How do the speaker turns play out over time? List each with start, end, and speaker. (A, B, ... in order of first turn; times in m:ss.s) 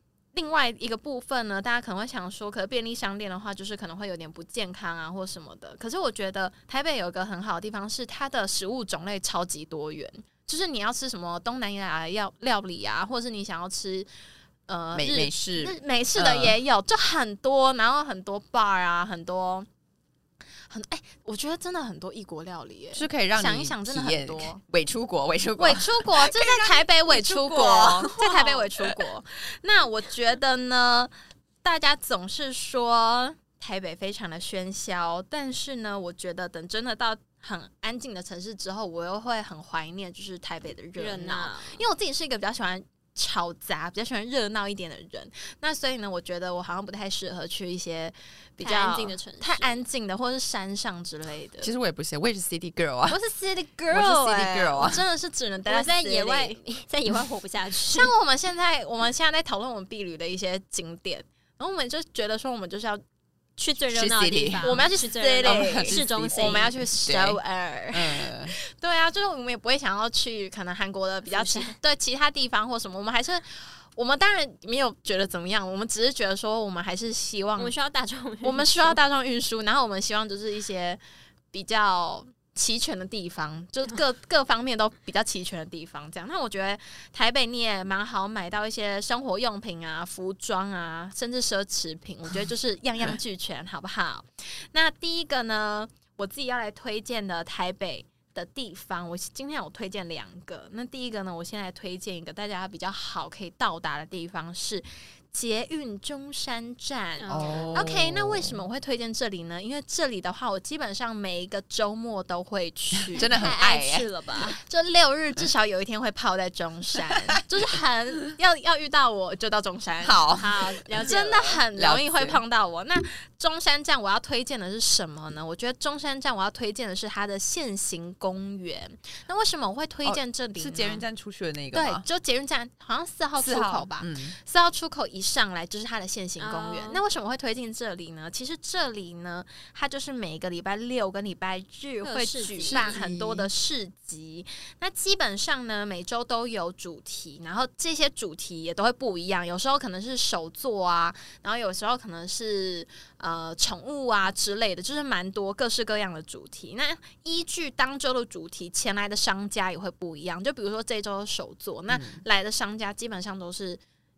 0:00.3-0:14.1 A
0:14.7-0:19.7 A
0:14.9-0:16.6 B
0:20.7-0:24.6 A
0:22.9-0:29.0 B
0:25.6-0:31.1 A
0:31.6-0:51.7 A
0:41.0-0:41.8 C
0:48.6-0:49.8 C
0:51.6-0:53.2 B
0:53.1-0:56.6 A
0:53.9-0:55.0 B
0:55.7-0:58.1 C
0:57.9-1:03.0 A
1:03.6-1:06.7 C
1:03.9-1:04.8 B
1:04.6-1:17.7 A
1:05.4-1:07.4 B
1:07.9-1:08.6 B
1:11.3-1:11.7 C
1:17.6-1:19.0 C
1:18.4-1:21.0 A
1:21.5-1:53.3 A
1:47.2-1:47.9 C
1:47.3-1:48.6 B
1:53.1-1:54.1 B
1:53.2-1:54.6 C
1:54.5-2:00.2 A
2:00.0-2:01.1 B
2:00.4-2:01.6 C
2:01.0-2:11.0 A
2:01.7-2:02.4 B
2:10.0-2:12.0 B
2:11.7-2:43.8 A
2:13.4-2:14.4 B
2:16.4-2:17.0 C
2:22.0-2:23.0 C
2:22.7-2:23.5 B
2:41.9-2:42.2 B